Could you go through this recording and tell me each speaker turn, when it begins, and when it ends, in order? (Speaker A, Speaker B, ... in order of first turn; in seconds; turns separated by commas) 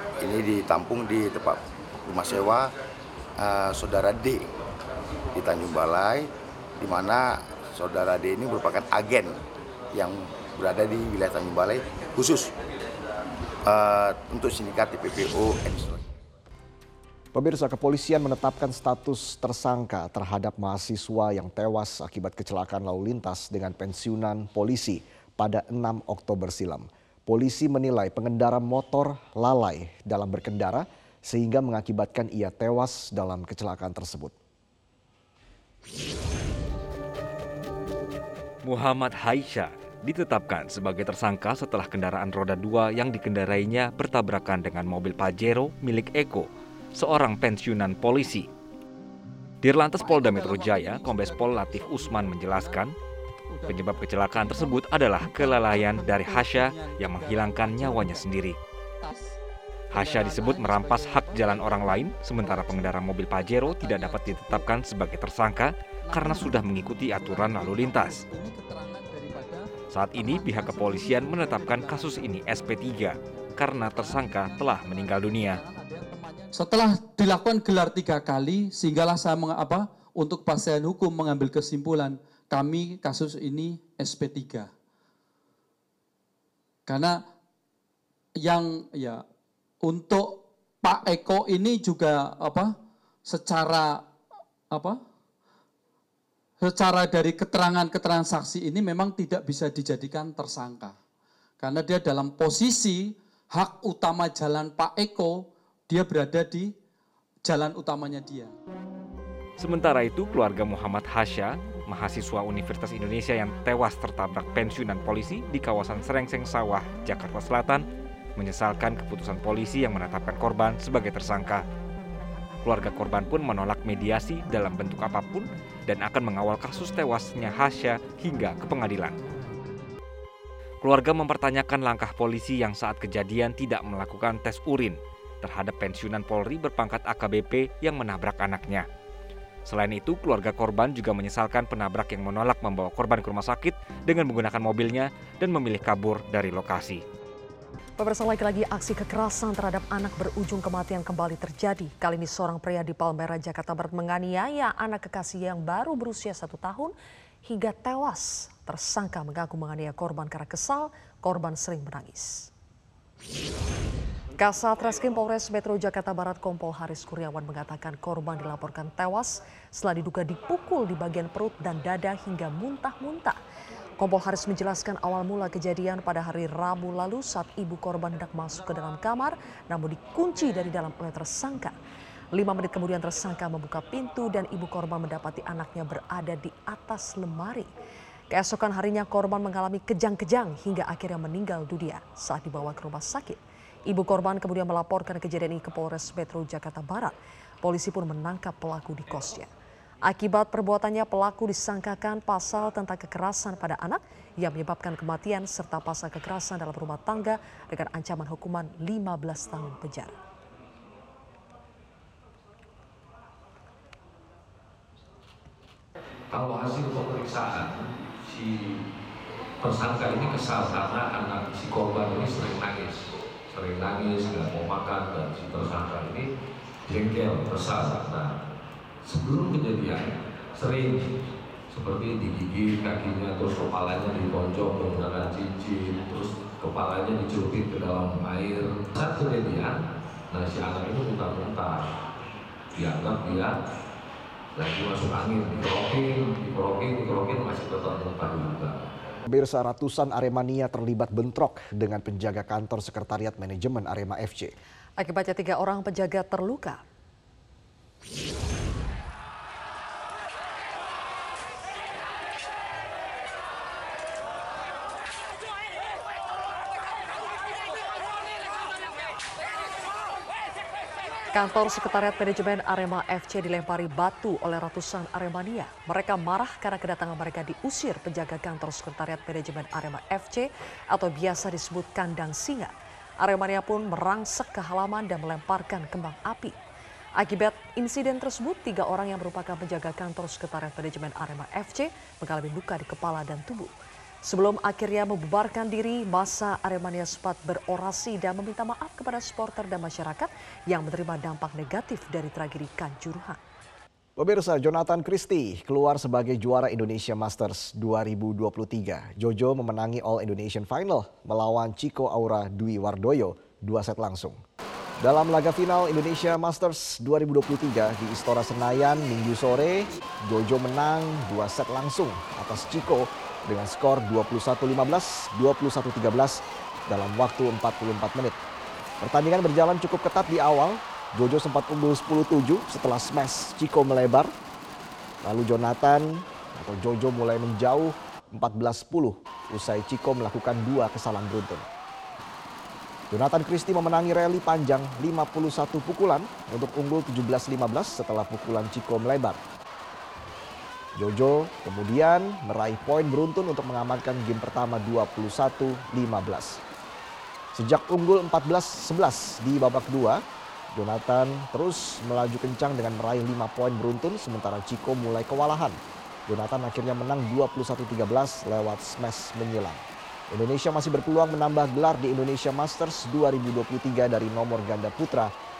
Speaker A: 0.2-2.7, Speaker A: 3.4-4.5, Speaker A: 5.3-9.4, Speaker A: 9.9-12.5, Speaker A: 13.7-16.0, Speaker B: 17.4-34.3, Speaker C: 38.6-48.5, Speaker C: 49.6-52.9, Speaker D: 50.0-52.8, Speaker D: 53.5-58.2, Speaker C: 53.7-58.6, Speaker C: 59.9-68.2, Speaker D: 59.9-62.9, Speaker D: 63.6-64.7, Speaker D: 66.1-69.7, Speaker C: 69.9-75.6, Speaker D: 70.2-72.2, Speaker D: 74.0-84.7, Speaker D: 86.9-87.2, Speaker D: 88.4-89.2, Speaker D: 89.8-92.7, Speaker D: 93.3-94.1, Speaker D: 94.7-95.0, Speaker D: 96.6-101.0, Speaker D: 101.6-106.7, Speaker D: 107.5-108.5, Speaker C: 109.6-121.7, Speaker C: 122.6-129.2, Speaker C: 130.8-138.9, Speaker C: 139.7-147.0, Speaker E: 148.0-156.9, Speaker E: 157.5-162.5, Speaker E: 164.4-173.4, Speaker E: 174.0-181.8, Speaker E: 182.3-187.7, Speaker E: 188.3-199.5, Speaker E: 200.0-210.2, Speaker F: 216.3-218.7, Speaker F: 219.6-226.3, Speaker F: 226.9-228.3, Speaker F: 229.0-231.1, Speaker F: 231.7-241.9, Speaker F: 242.8-243.6, Speaker F: 244.6-248.9, Speaker B: 249.3-254.5, Speaker E: 255.0-256.8, Speaker E: 271.3-286.6, Speaker E: 287.2-293.7, Speaker E: 294.2-303.4, Speaker B: 304.2-314.4, Speaker B: 315.0-328.4, Speaker B: 329.0-334.3, Speaker B: 335.2-341.7, Speaker B: 343.1-349.4, Speaker B: 351.0-356.6, Speaker B: 357.6-360.2, Speaker B: 360.7-375.3